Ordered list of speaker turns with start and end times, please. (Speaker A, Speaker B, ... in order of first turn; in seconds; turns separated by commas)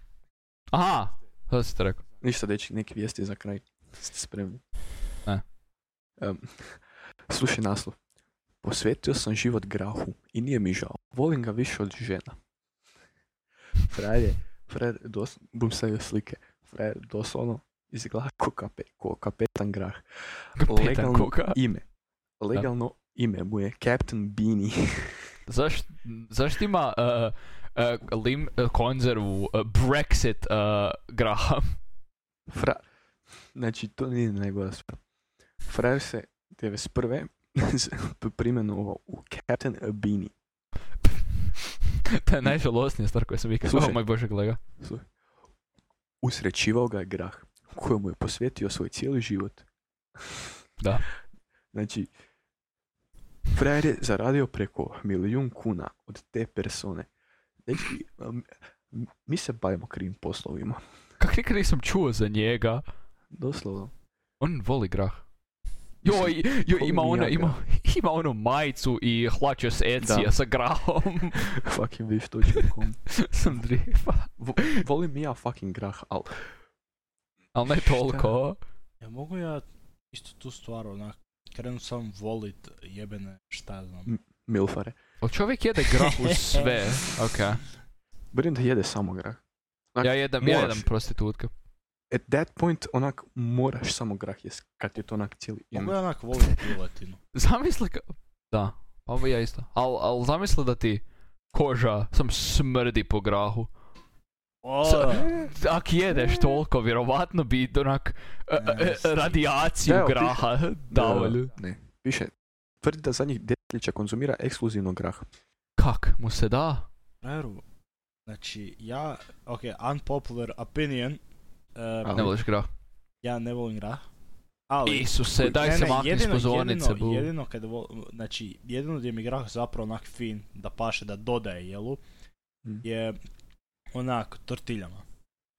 Speaker A: 0.7-2.0, Speaker B: 2.2-4.6, Speaker B: 6.2-8.0, Speaker B: 8.6-12.4, Speaker B: 13.8-21.8, Speaker A: 20.6-21.6, Speaker B: 22.4-25.3, Speaker A: 25.5-31.7, Speaker B: 32.5-32.8, Speaker B: 33.5-35.0, Speaker B: 35.6-40.3, Speaker A: 42.0-44.6, Speaker B: 43.6-44.0, Speaker B: 44.8-45.0, Speaker B: 46.2-49.6, Speaker B: 50.2-50.5, Speaker A: 50.8-51.0, Speaker B: 51.7-52.1, Speaker B: 53.5-57.1, Speaker B: 57.6-60.8, Speaker A: 61.2-62.8, Speaker B: 63.3-63.9, Speaker A: 64.4-65.2, Speaker B: 66.0-67.6, Speaker A: 66.0-71.5, Speaker B: 70.0-70.3, Speaker B: 71.3-73.0, Speaker A: 72.6-74.8, Speaker B: 74.4-76.5, Speaker A: 77.5-78.6, Speaker B: 77.8-78.3, Speaker C: 79.0-84.1, Speaker B: 84.0-85.0, Speaker A: 85.2-87.6, Speaker C: 85.9-87.0, Speaker B: 88.3-89.4, Speaker B: 89.9-90.9, Speaker A: 90.0-91.5, Speaker B: 92.1-96.0, Speaker C: 95.7-97.2, Speaker A: 97.3-103.7, Speaker C: 104.6-105.4, Speaker A: 104.8-111.5, Speaker C: 108.6-109.2, Speaker B: 109.8-115.3, Speaker A: 115.8-116.9, Speaker C: 117.2-117.6, Speaker C: 118.3-121.2, Speaker C: 121.8-122.3, Speaker B: 122.0-122.3, Speaker A: 122.1-122.7, Speaker C: 123.2-124.0, Speaker C: 124.7-132.0, Speaker A: 124.8-127.3, Speaker C: 132.8-133.2, Speaker C: 133.9-135.0